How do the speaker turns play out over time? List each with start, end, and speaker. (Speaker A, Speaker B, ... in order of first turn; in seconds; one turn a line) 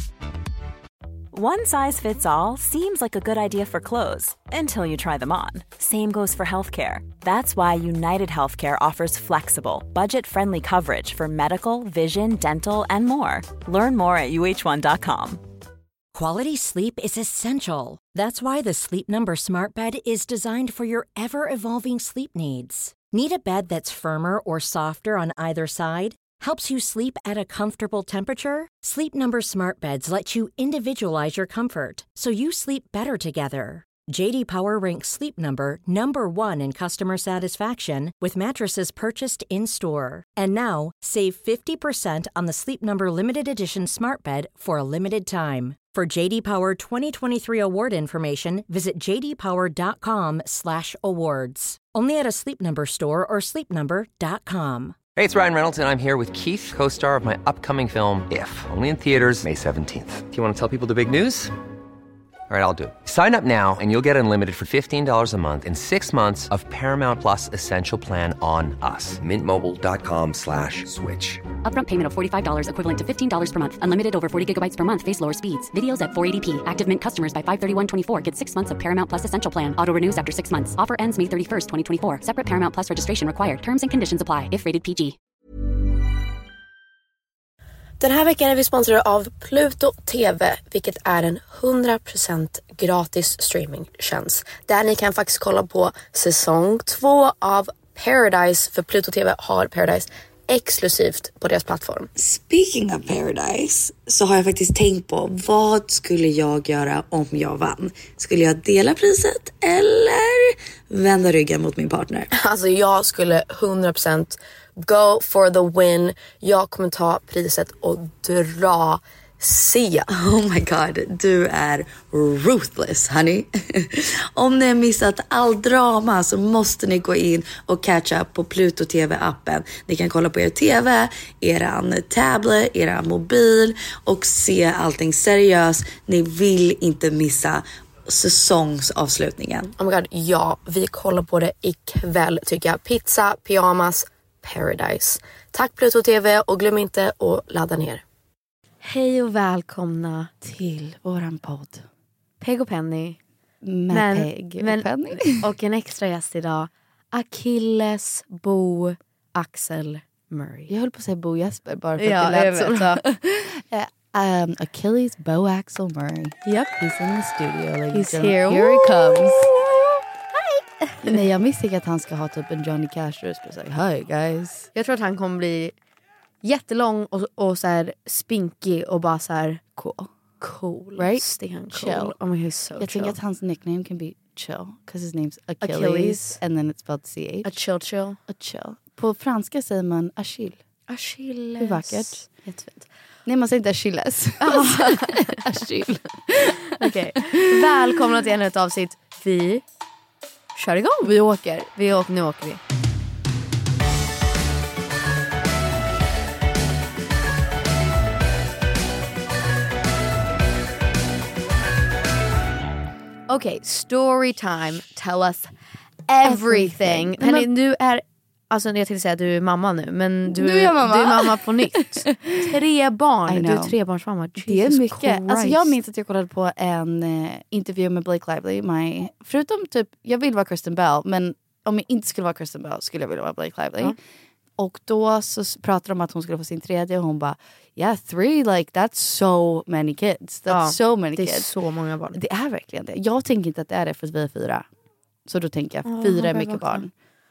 Speaker A: 1.3-15.4
Speaker B: 16.1-55.0
Speaker C: 55.1-61.5
Speaker C: 62.5-71.4
Speaker D: 71.6-85.2
Speaker E: 88.0-102.1
Speaker F: 102.2-112.3
Speaker E: 112.3-120.1
Speaker F: 120.1-139.7
Speaker E: 139.7-148.0
Speaker G: 148.8-150.3
Speaker H: 150.4-151.8
Speaker G: 152.4-153.2
Speaker H: 153.6-155.4
Speaker G: 153.9-160.7
Speaker H: 160.7-169.5
Speaker G: 162.0-163.0
Speaker G: 166.4-166.7
Speaker G: 167.9-171.2
Speaker H: 171.0-174.7
Speaker G: 174.7-175.7
Speaker G: 176.4-179.8
Speaker H: 179.8-180.1
Speaker G: 180.4-183.2
Speaker H: 181.0-182.2
Speaker H: 182.8-187.5
Speaker G: 185.6-186.4
Speaker G: 187.4-188.2
Speaker H: 188.3-190.6
Speaker G: 190.9-192.8
Speaker H: 191.6-192.4
Speaker H: 193.2-197.3
Speaker G: 194.4-195.4
Speaker G: 196.8-199.6
Speaker G: 200.5-201.1
Speaker H: 201.0-201.7
Speaker G: 201.7-202.6
Speaker G: 213.3-215.5
Speaker G: 216.1-225.8
Speaker H: 216.2-217.5
Speaker H: 220.3-222.5
Speaker H: 223.3-223.7
Speaker H: 224.4-233.9
Speaker H: 234.6-241.5
Speaker G: 240.5-242.2
Speaker H: 242.1-244.6
Speaker H: 245.3-246.9
Speaker G: 245.8-246.8